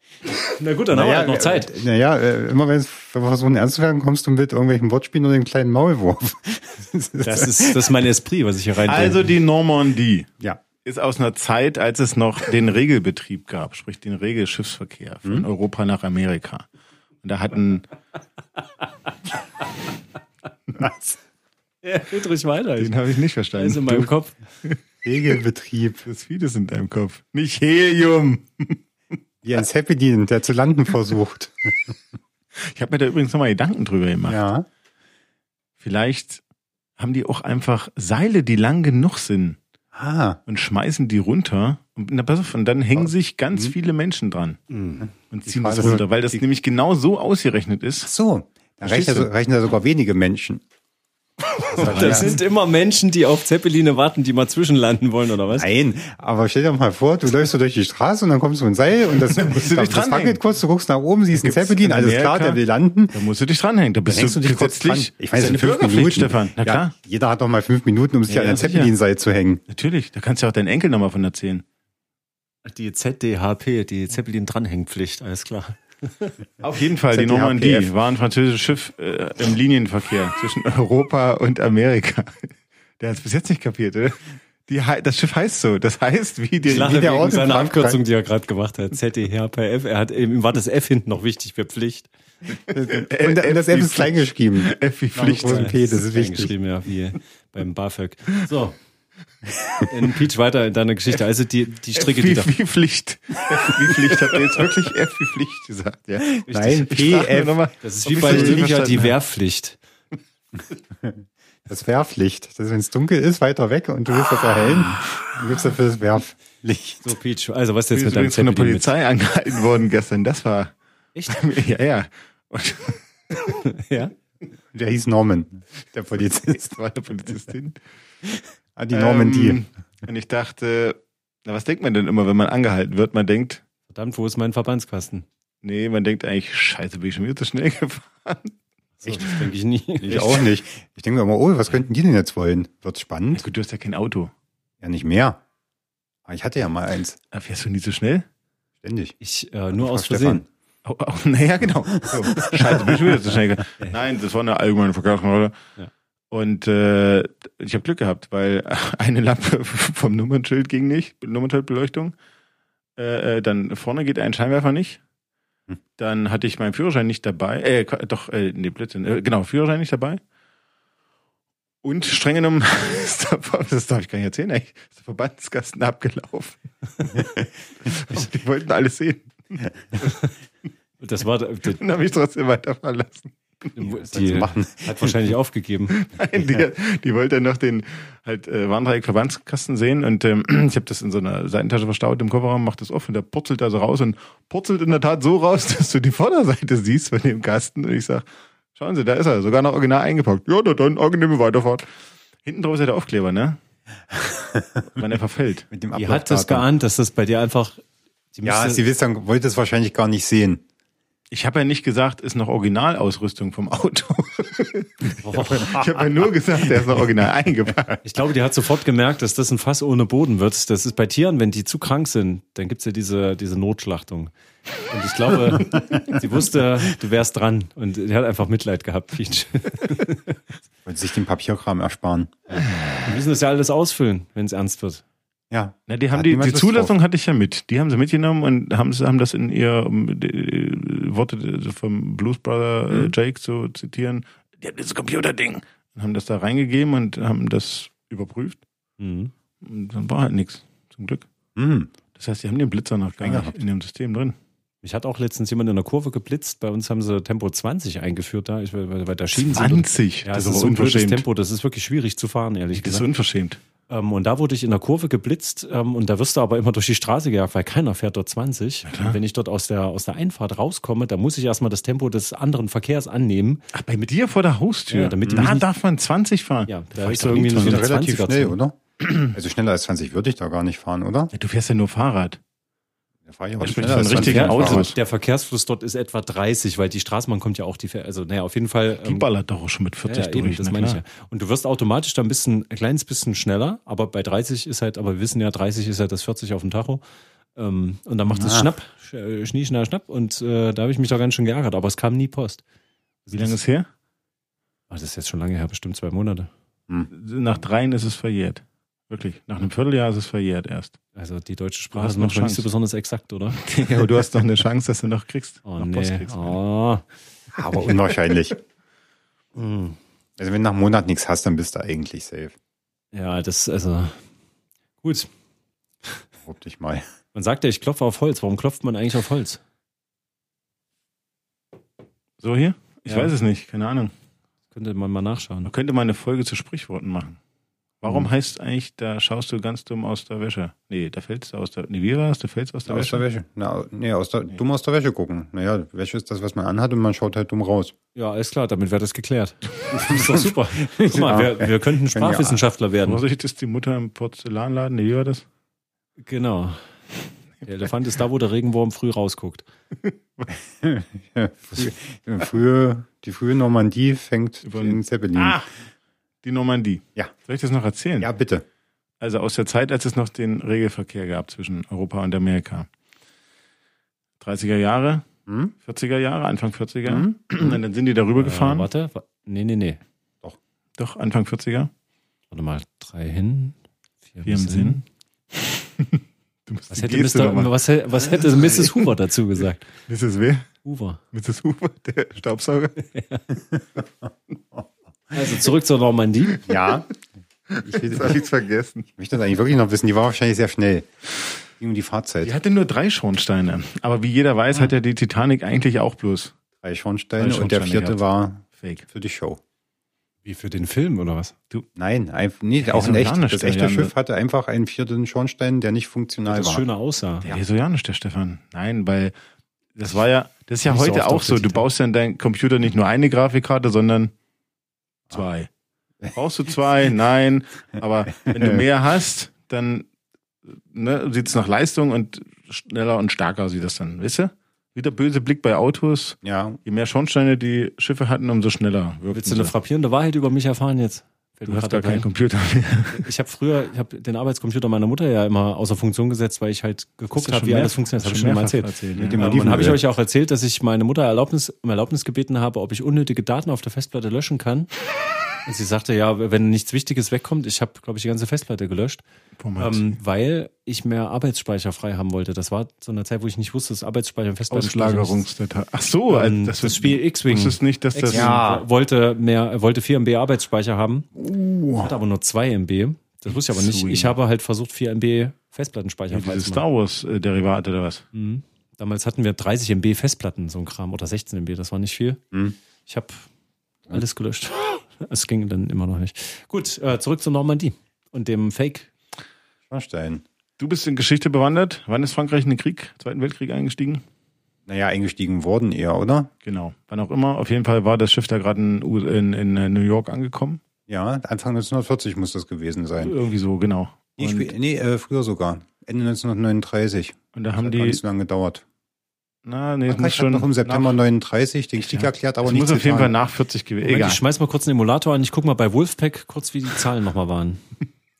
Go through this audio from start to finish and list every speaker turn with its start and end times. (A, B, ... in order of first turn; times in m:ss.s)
0:00.5-0:01.7 A
0:00.9-0:07.9 B
0:07.2-0:09.3 A
0:08.8-0:10.3 C
0:10.8-0:16.6 C
0:17.2-0:17.9 C
0:21.8-0:22.9 A
0:22.8-0:24.1 C
0:23.6-0:24.4 A
0:25.0-0:26.0 B
0:26.0-0:28.8 C
0:29.4-0:32.0 B
0:32.6-0:34.4 C
0:34.2-0:34.7 B
0:35.8-0:36.4 C
0:37.0-0:39.6 C
0:39.9-0:40.4 B
0:40.5-0:44.6 C
0:43.0-0:43.7 B
0:44.7-0:45.0 A
0:45.0-0:46.4 B
0:45.3-0:48.1 C
0:48.0-0:50.6 B
0:48.8-0:49.3 C
0:51.7-0:55.7 A
0:51.7-0:52.4 B
0:51.8-0:52.3 C
0:55.5-1:03.2 B
0:59.2-1:00.4 C
1:01.3-1:02.6 C
1:03.1-1:06.9 C
1:04.1-1:09.6 B
1:08.3-1:08.9 C
1:09.7-1:11.6 C
1:12.6-1:16.4 A
1:16.6-1:22.5 C
1:17.1-1:17.9 B
1:23.0-1:27.0 C
1:26.6-1:32.1 A
1:26.7-1:28.0 B
1:32.7-1:36.5 B
1:32.8-1:35.7 C
1:35.4-1:38.8 A
1:39.8-1:42.5 A
1:41.9-1:49.1 C
1:46.2-1:47.7 B
1:46.5-1:46.8 A
1:47.8-1:49.8 A
1:48.2-1:48.7 B
1:51.0-1:57.2 B
1:57.0-1:58.9 A
1:57.9-2:00.7 C
2:01.1-2:01.4 A
2:01.3-2:03.6 C
2:03.6-2:04.1 A
2:04.7-2:06.7 B
2:06.4-2:07.8 C
2:08.8-2:09.6 B
2:08.9-2:13.6 C
2:13.9-2:15.2 A
2:15.6-2:18.5 C
2:19.0-2:20.4 A
2:19.2-2:19.5 C
2:20.0-2:23.4 B
2:23.3-2:24.3 C
2:24.8-2:25.4 B
2:26.2-2:27.2 B
2:27.3-2:28.2 C
2:28.8-2:29.1 B
2:29.2-2:30.4 A
2:29.8-2:30.4 B
2:30.8-2:35.5 C
2:32.0-2:33.1 B
2:36.3-2:42.1 C
2:43.0-2:45.0 C
2:46.0-2:50.2 C
2:51.8-3:00.2 C
3:01.0-3:01.8 A
3:01.7-3:03.7 C
3:03.8-3:06.0 A
3:03.9-3:05.1 B
3:05.9-3:21.8 C
3:22.4-3:23.6 C
3:24.1-3:24.8 B
3:24.9-3:25.7 C
3:25.7-3:26.7 B
3:25.9-3:27.8 A
3:28.3-3:28.8 A
3:28.4-3:30.6 B
3:31.3-3:38.0 C
3:35.2-3:35.7 A
3:35.6-3:35.9 B
3:38.0-3:44.3 A
3:44.9-3:50.4 A
3:50.8-3:52.6 B
3:53.0-3:55.0 A
3:55.5-3:56.9 B
3:55.9-4:08.6 C
4:09.0-4:09.3 A
4:09.6-4:11.2 C
4:11.6-4:11.9 B
4:12.1-4:14.4 C
4:13.2-4:13.5 B
4:14.8-4:23.0 A
4:19.4-4:21.2 C
4:22.7-4:23.6 C
4:23.9-4:33.6 A
4:28.8-4:29.2 C
4:33.7-4:37.9 C
4:34.9-4:35.6 A
4:35.2-4:35.5 B
4:36.7-4:38.6 A
4:37.5-4:41.3 B
4:41.3-4:42.4 C
4:43.2-4:44.9 B
4:43.6-4:44.9 C
4:44.1-4:49.2 A
4:49.0-4:51.0 C
4:50.0-4:57.0 A
4:57.6-5:02.6 A
4:58.3-4:58.7 B
5:03.2-5:03.6 A
5:03.3-5:03.9 C
5:04.9-5:06.5 A
5:07.1-5:11.0 C
5:11.1-5:13.7 A
5:11.9-5:12.6 C
5:13.6-5:16.6 C
5:15.6-5:17.0 A
5:17.5-5:18.6 B
5:19.5-5:20.0 A
5:20.4-5:22.5 B
5:23.1-5:24.2 A
5:25.0-5:25.3 A
5:26.4-5:27.0 B
5:27.3-5:29.6 A
5:32.4-5:34.1 C
5:34.7-5:35.7 A
5:35.6-5:37.4 C
5:38.0-5:43.2 C
5:42.9-5:47.9 B
5:48.1-5:53.2 A
5:50.1-5:52.6 B
5:53.0-5:55.4 C
5:56.2-5:56.8 A
5:57.6-5:59.6 A
6:00.0-6:00.5 C
6:00.8-6:05.6 B
6:04.6-6:05.7 C
6:06.4-6:08.3 C
6:08.2-6:08.6 B
6:09.2-6:12.9 C
6:14.4-6:15.2 C
6:15.5-6:15.7 B
6:15.8-6:18.9 C
6:17.0-6:17.8 B
6:18.4-6:20.0 A
6:21.0-6:21.9 C
6:22.5-6:23.8 A
6:24.3-6:25.0 A
6:24.4-6:29.1 C
6:26.9-6:29.9 A
6:30.1-6:30.7 C
6:30.8-6:31.2 A
6:31.3-6:33.0 C
6:33.1-6:33.4 A
6:35.3-6:36.7 A
6:36.6-6:37.1 B
6:37.7-6:39.1 C
6:37.8-6:38.4 B
6:39.2-6:41.1 B
6:41.8-6:42.5 B
6:42.4-6:46.5 C
6:46.8-6:49.6 B
6:47.4-6:48.2 C
6:48.8-6:49.0 C
6:50.4-6:51.5 A
6:51.9-6:56.8 B
6:52.8-6:54.1 C
6:56.5-6:57.5 A
6:57.4-6:59.3 C
7:00.0-7:04.3 C
7:00.8-7:01.8 A
7:05.3-7:05.7 C
7:06.3-7:10.0 C
7:08.4-7:08.8 B
7:10.9-7:19.7 C
7:16.4-7:16.8 B
7:19.3-7:22.3 A
7:21.7-7:23.3 C
7:23.1-7:34.9 A
7:27.3-7:29.9 C
7:29.2-7:30.0 B
7:35.6-7:39.2 A
7:39.6-7:40.1 C
7:39.8-7:45.4 A
7:44.7-7:48.6 C
7:46.3-7:51.3 A
7:48.3-7:48.8 B
7:51.4-7:52.1 B
7:52.0-7:56.8 A
7:53.5-7:54.4 C
7:56.3-7:58.2 C
7:58.3-8:02.4 A
8:03.0-8:03.5 A
8:04.1-8:09.1 A
8:09.9-8:10.4 B
8:10.8-8:14.2 C
8:14.9-8:16.5 B
8:16.6-8:20.8 C
8:21.1-8:23.3 B
8:23.2-8:24.7 C
8:24.4-8:28.8 B
8:27.5-8:28.2 C
8:29.6-8:31.2 C
8:30.1-8:33.3 B
8:32.0-8:34.4 C
8:34.0-8:37.8 A